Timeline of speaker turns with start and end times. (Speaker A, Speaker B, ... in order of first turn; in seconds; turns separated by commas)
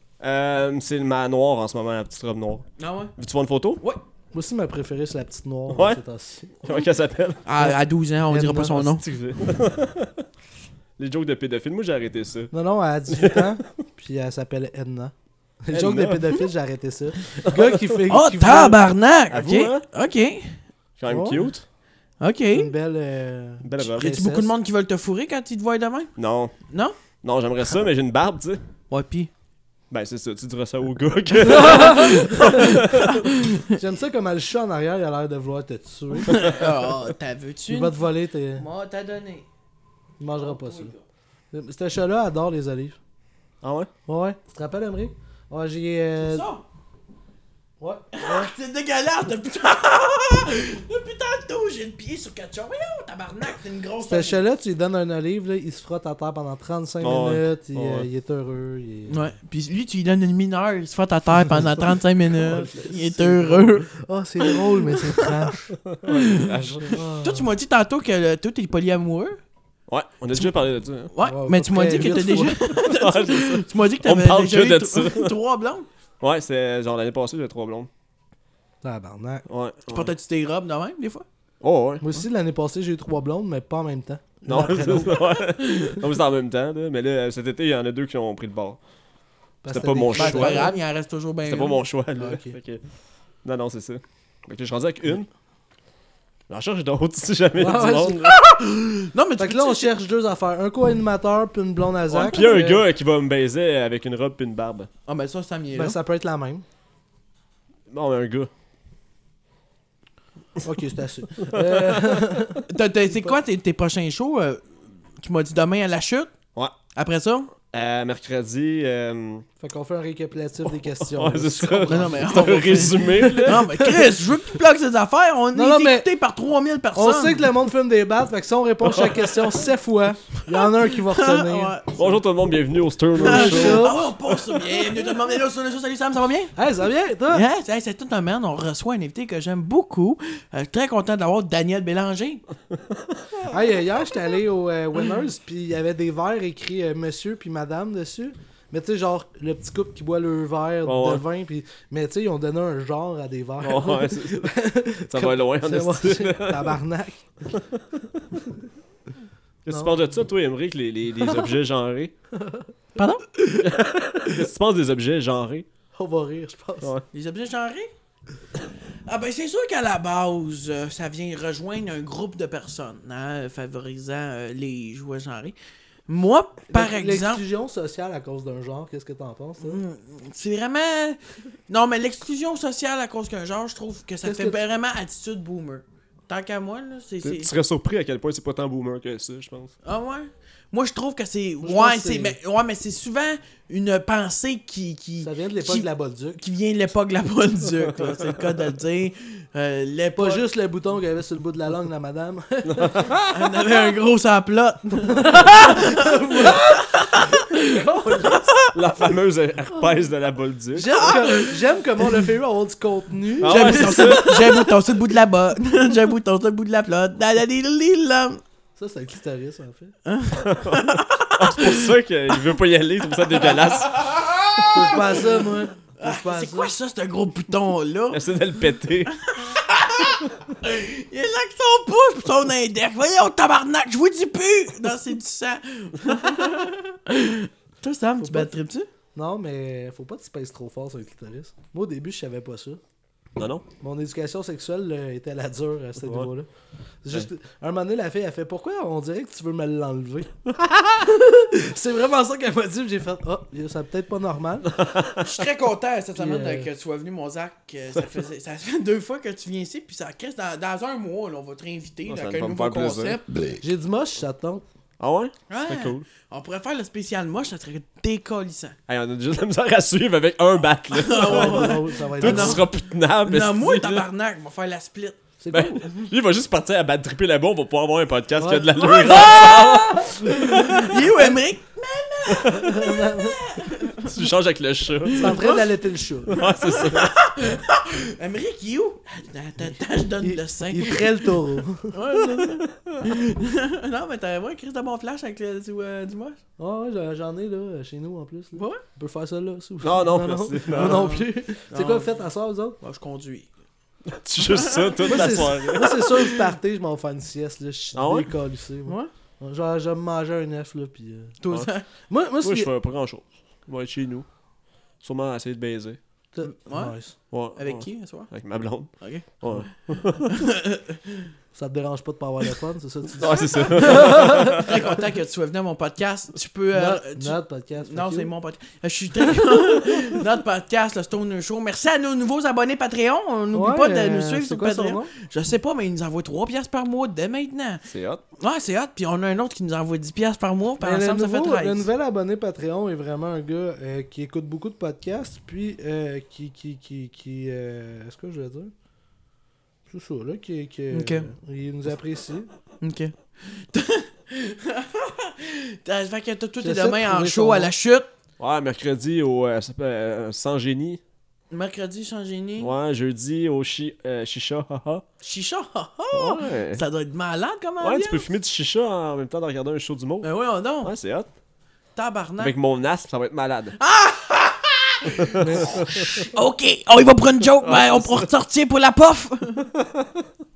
Speaker A: 0.2-3.8, Speaker B: 2.8-3.1, Speaker C: 4.3-6.6, Speaker A: 5.7-6.0, Speaker A: 6.6-7.4, Speaker B: 7.5-9.0, Speaker C: 8.3-8.9, Speaker A: 9.0-10.2, Speaker A: 11.0-12.5, Speaker C: 12.5-18.8, Speaker A: 13.1-13.6, Speaker A: 15.7-16.4, Speaker A: 17.4-18.0, Speaker B: 18.1-20.6, Speaker A: 19.3-19.9, Speaker A: 21.0-21.6, Speaker C: 21.1-21.5, Speaker B: 22.2-22.7, Speaker C: 22.5-24.5, Speaker A: 23.6-24.1, Speaker B: 24.0-26.1, Speaker A: 26.2-26.5, Speaker B: 26.7-27.0, Speaker A: 27.2-28.6, Speaker B: 28.9-29.3, Speaker A: 29.9-33.2, Speaker C: 31.5-32.4, Speaker B: 31.6-33.6, Speaker C: 33.7-36.7, Speaker B: 36.3-38.0, Speaker C: 37.7-38.6, Speaker B: 38.5-39.5, Speaker C: 40.2-40.9, Speaker B: 40.4-41.0, Speaker C: 41.5-43.0, Speaker A: 43.6-43.9, Speaker C: 44.1-46.5, Speaker B: 46.2-46.6, Speaker C: 47.8-48.5, Speaker B: 48.1-54.4, Speaker C: 54.0-59.3, Speaker A: 57.0-58.1, Speaker B: 59.1-63.9, Speaker C: 62.4-65.8, Speaker B: 64.4-65.3, Speaker A: 65.9-67.0, Speaker B: 66.1-69.4, Speaker C: 66.9-67.5, Speaker A: 69.9-71.1, Speaker B: 71.1-75.9, Speaker C: 71.2-72.6, Speaker A: 72.7-75.3, Speaker A: 76.2-77.9, Speaker C: 78.8-79.4, Speaker A: 79.5-80.1, Speaker B: 79.9-81.2, Speaker A: 81.6-82.0, Speaker C: 82.0-85.3, Speaker A: 84.5-88.8, Speaker C: 89.6-90.8, Speaker A: 89.7-90.7, Speaker B: 90.1-91.8, Speaker A: 91.5-92.8, Speaker C: 92.2-92.5, Speaker A: 93.4-95.3, Speaker A: 96.5-98.4, Speaker C: 97.6-98.3, Speaker B: 98.7-99.9, Speaker C: 99.4-102.8, Speaker A: 102.1-104.9, Speaker B: 105.1-106.0, Speaker C: 105.8-106.6, Speaker A: 107.9-108.5, Speaker C: 110.6-112.7, Speaker A: 111.4-112.4, Speaker B: 112.7-114.7, Speaker B: 115.2-116.3, Speaker B: 117.0-117.5, Speaker A: 117.7-119.5, Speaker C: 119.6-124.0, Speaker A: 121.0-123.7, Speaker B: 121.9-127.4, Speaker C: 125.5-126.1, Speaker C: 126.9-131.7, Speaker A: 128.8-129.5, Speaker B: 130.4-132.2, Speaker A: 132.0-135.0, Speaker C: 133.2-134.0, Speaker B: 133.2-136.5, Speaker C: 136.6-137.4, Speaker B: 137.3-142.4, Speaker A: 142.7-143.6, Speaker C: 143.5-157.5, Speaker A: 150.8-151.2, Speaker A: 153.6-154.5, Speaker A: 155.1-156.8, Speaker A: 157.5-158.4, Speaker A: 159.7-162.1, Speaker C: 159.7-160.0, Speaker C: 162.3-162.7, Speaker B: 163.0-163.2, Speaker C: 163.4-163.6, Speaker A: 163.6-165.7, Speaker C: 165.9-166.9, Speaker B: 167.1-167.9, Speaker B: 169.1-175.6, Speaker B: 176.1-177.4, Speaker C: 176.7-179.8, Speaker B: 179.6-187.5, Speaker C: 184.2-184.6, Speaker A: 187.2-189.7, Speaker B: 189.8-195.9, Speaker C: 191.6-192.4, Speaker C: 195.2-196.4, Speaker B: 196.4-200.4, Speaker C: 200.2-203.1, Speaker A: 202.7-203.3, Speaker B: 203.3-208.7, Speaker C: 205.1-208.6, Speaker A: 208.7-211.2, Speaker C: 210.7-214.5, Speaker B: 211.0-212.3, Speaker A: 213.4-214.7, Speaker B: 213.4-218.4, Speaker C: 218.8-219.9, Speaker B: 220.1-221.9, Speaker A: 220.4-224.1, Speaker B: 223.3-225.2, Speaker C: 224.7-226.7, Speaker B: 226.0-228.2, Speaker A: 228.1-229.1, Speaker B: 229.2-238.9, Speaker C: 238.2-238.5, Speaker C: 239.2-242.8, Speaker A: 243.4-243.7, Speaker C: 243.8-246.5, Speaker A: 246.0-246.3, Speaker C: 247.0-250.3, Speaker C: 250.9-254.7, Speaker A: 254.7-255.3, Speaker B: 255.2-263.6, Speaker C: 256.1-256.7, Speaker A: 262.1-263.2, Speaker C: 263.6-264.6, Speaker A: 265.0-266.1, Speaker B: 265.5-268.8, Speaker A: 268.9-274.1, Speaker B: 270.9-272.7, Speaker C: 271.2-272.6, Speaker B: 273.2-275.3, Speaker C: 275.4-275.7, Speaker A: 275.5-281.0, Speaker C: 278.4-279.8, Speaker B: 278.8-284.1, Speaker A: 282.3-282.8, Speaker C: 282.6-283.4, Speaker A: 284.1-285.5, Speaker B: 285.1-285.6, Speaker C: 285.1-286.4, Speaker A: 286.3-287.2, Speaker B: 286.3-296.4, Speaker C: 290.2-291.9, Speaker A: 292.2-293.1, Speaker C: 296.6-302.8, Speaker B: 298.6-298.8, Speaker A: 299.8-301.1, Speaker B: 300.7-302.1, Speaker B: 302.8-303.5, Speaker A: 304.1-306.2, Speaker B: 304.5-305.4, Speaker C: 305.1-311.4, Speaker A: 307.9-308.3, Speaker B: 311.4-311.9, Speaker C: 312.1-312.7, Speaker A: 312.4-314.3, Speaker A: 315.0-316.0, Speaker C: 316.3-317.1, Speaker B: 316.4-317.0, Speaker A: 317.3-320.3, Speaker B: 317.6-318.3, Speaker B: 319.0-319.3, Speaker B: 320.3-321.2, Speaker C: 321.5-324.7, Speaker A: 323.2-324.8, Speaker B: 323.4-337.8, Speaker C: 326.7-328.3, Speaker C: 333.5-335.1, Speaker A: 337.9-338.2, Speaker B: 338.4-341.9, Speaker C: 340.8-348.7, Speaker C: 349.9-352.5, Speaker B: 350.9-351.3, Speaker B: 352.8-358.1, Speaker C: 356.6-357.7, Speaker A: 358.4-361.0, Speaker B: 361.5-362.7, Speaker A: 362.6-365.0, Speaker B: 365.2-368.3, Speaker A: 366.1-366.8, Speaker A: 367.8-370.3, Speaker B: 370.2-370.9, Speaker A: 370.8-371.3, Speaker B: 372.0-372.5, Speaker A: 372.4-373.8, Speaker B: 373.8-379.7, Speaker A: 375.2-376.3, Speaker C: 375.4-376.2, Speaker A: 377.6-378.3, Speaker A: 379.8-380.2